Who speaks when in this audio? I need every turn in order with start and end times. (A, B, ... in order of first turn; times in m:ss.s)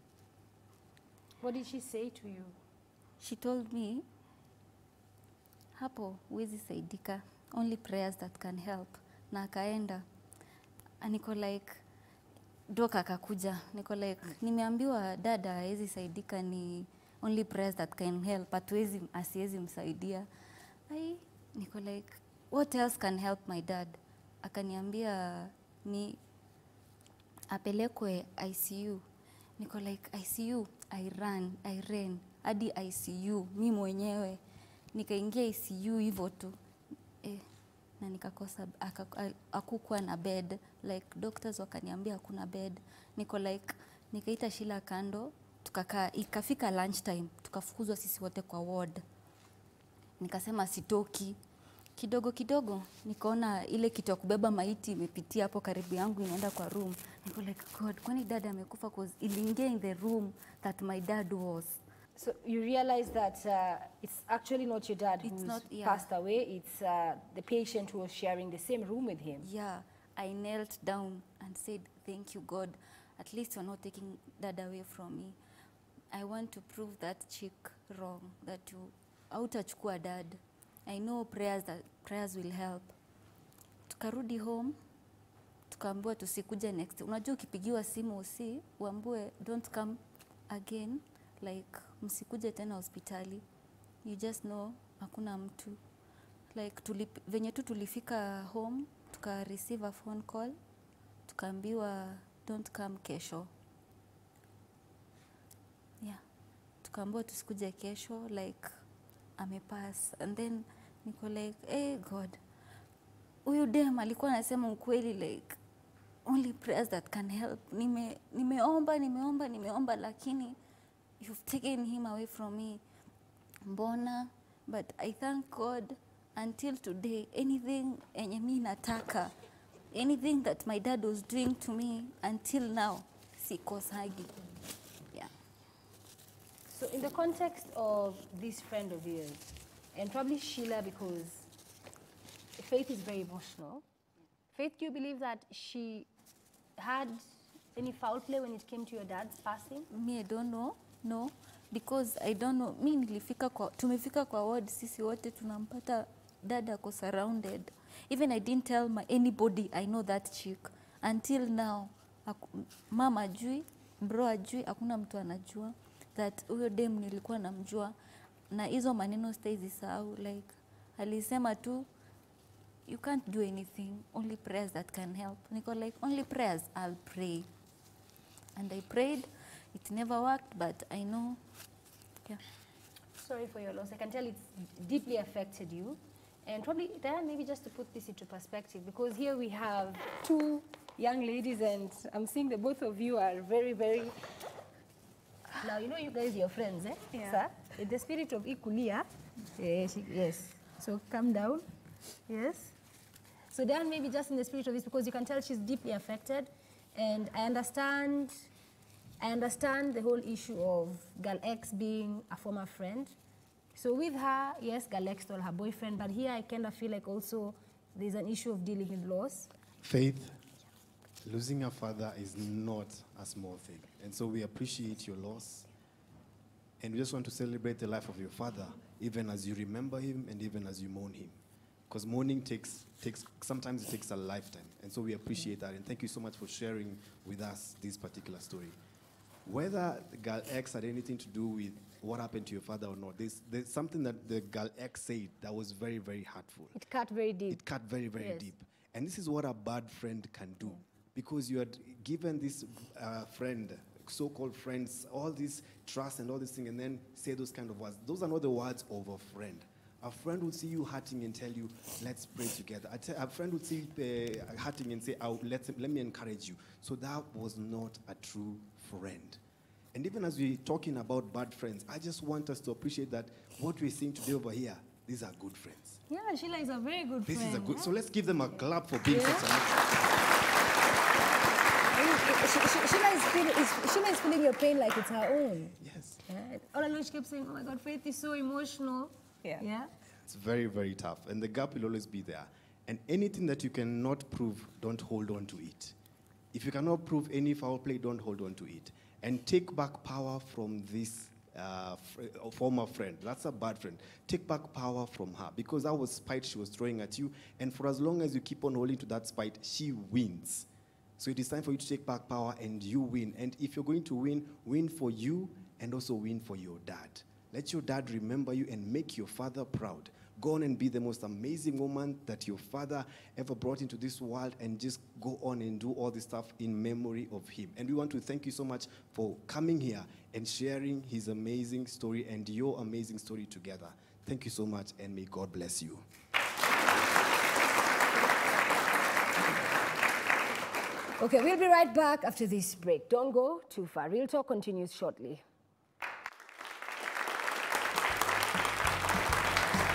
0:01.4-0:02.5 A
0:03.2-0:04.0 B
0:05.7-0:10.0 B
0:11.0-0:11.8 B
0:12.7-0:20.3 B
0:20.9-0:26.2 B
0:27.5-0:29.0 B
0:29.6-0:34.4 B
0:34.9-0:36.6 B
0:38.0-0:49.0 B
0:50.2-0:51.4 B
0:52.0-1:01.8 B
1:02.2-1:09.4 A
1:05.2-1:06.1 B
1:09.4-1:15.4 B
1:16.1-1:22.9 B
1:23.9-1:24.7 B
1:25.7-1:30.0 B
1:30.5-1:33.4 B
1:34.0-1:35.8 B
1:36.5-1:40.5 B
1:41.3-1:43.5 B
1:46.8-1:48.7 B
1:49.4-1:52.4 B
1:53.4-1:55.6 B
1:56.2-2:00.6 B
2:01.2-2:02.8 B
2:03.6-2:09.3 B
2:09.9-2:14.3 B
2:16.7-2:21.5 A
2:22.6-2:23.8 A
2:24.5-2:26.1 A
2:26.8-2:27.2 A
2:27.7-2:29.9 A
2:29.9-2:47.9 B
2:48.5-2:51.9 B
2:52.9-2:57.5 B
2:58.6-3:01.4 B
3:03.2-3:14.2 A
3:15.5-3:21.6 A
3:22.3-3:22.7 A
3:23.5-3:28.4 A
3:29.2-3:33.1 A
3:33.7-3:39.5 A
3:39.8-3:40.4 C
3:41.2-3:45.7 C
3:46.8-3:58.8 C
3:59.4-4:06.8 C
4:06.7-4:07.6 A
4:07.5-4:29.4 C
4:08.2-4:08.5 A
4:29.9-4:36.0 C
4:36.1-4:37.9 A
4:37.2-4:39.8 C
4:39.1-4:39.4 A
4:41.9-4:49.9 A
4:45.8-4:46.2 C
4:50.3-4:55.9 C
4:56.5-5:10.7 C
5:11.2-5:36.0 C
5:41.2-5:45.4 A